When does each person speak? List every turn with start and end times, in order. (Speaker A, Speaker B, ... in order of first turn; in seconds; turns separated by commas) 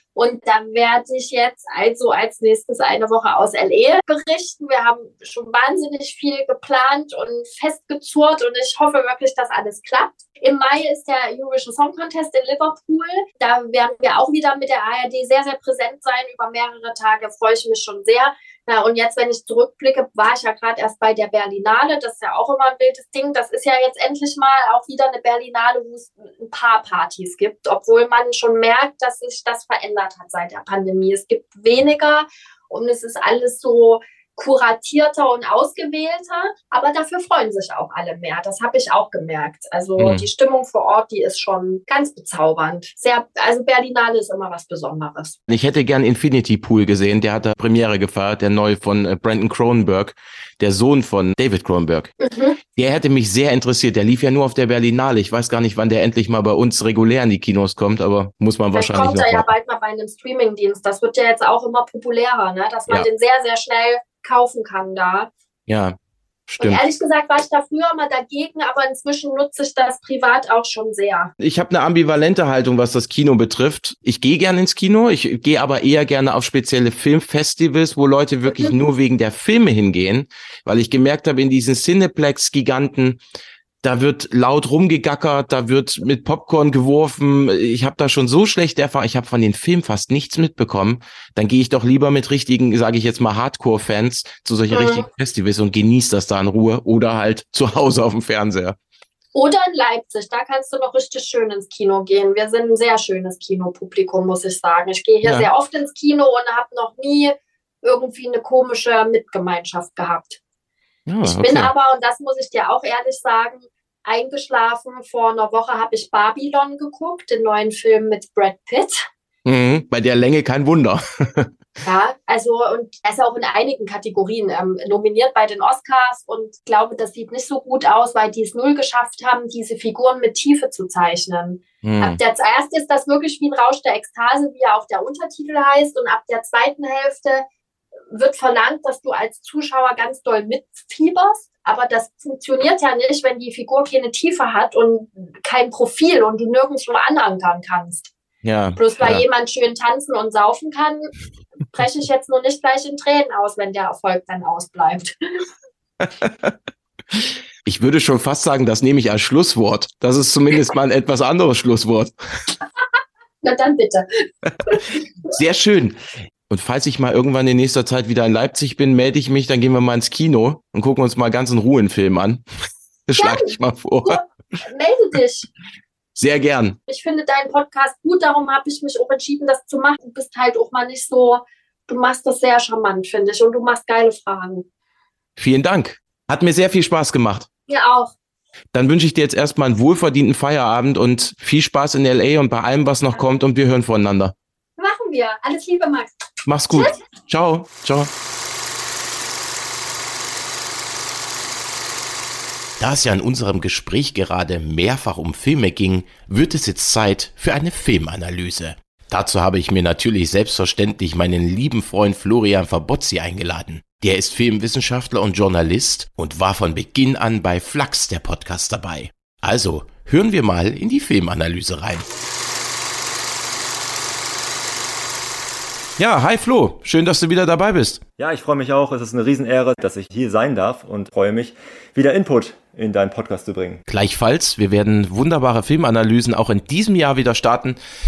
Speaker A: 0.1-45.4, Speaker B: 40.0-40.3, Speaker B: 45.5-52.1, Speaker A: 52.2-52.6, Speaker B: 52.8-59.5, Speaker A: 58.7-65.3, Speaker B: 65.7-66.8, Speaker A: 66.6-71.3, Speaker B: 71.4-83.2, Speaker A: 78.5-78.7, Speaker B: 83.8-98.8, Speaker A: 94.7-95.1, Speaker A: 99.3-110.4, Speaker B: 111.1-111.7, Speaker A: 111.2-119.1, Speaker B: 119.5-121.5, Speaker A: 121.8-137.4, Speaker B: 131.8-132.2, Speaker A: 138.1-148.1, Speaker B: 148.4-149.2, Speaker A: 148.8-151.1, Speaker A: 151.7-155.4, Speaker B: 156.0-156.5, Speaker B: 157.1-162.1, Speaker A: 163.4-165.0, Speaker B: 165.3-172.4, Speaker B: 173.1-174.2, Speaker A: 173.2-175.5, Speaker B: 176.2-176.8, Speaker A: 176.9-184.7, Speaker B: 185.4-187.5, Speaker A: 187.7-188.1, Speaker B: 188.7-194.3, Speaker A: 194.8-196.1, Speaker B: 196.5-198.1, Speaker A: 196.7-197.0, Speaker B: 202.8-222.1, Speaker B: 226.0-228.0, Speaker C: 228.2-233.8, Speaker B: 233.9-237.8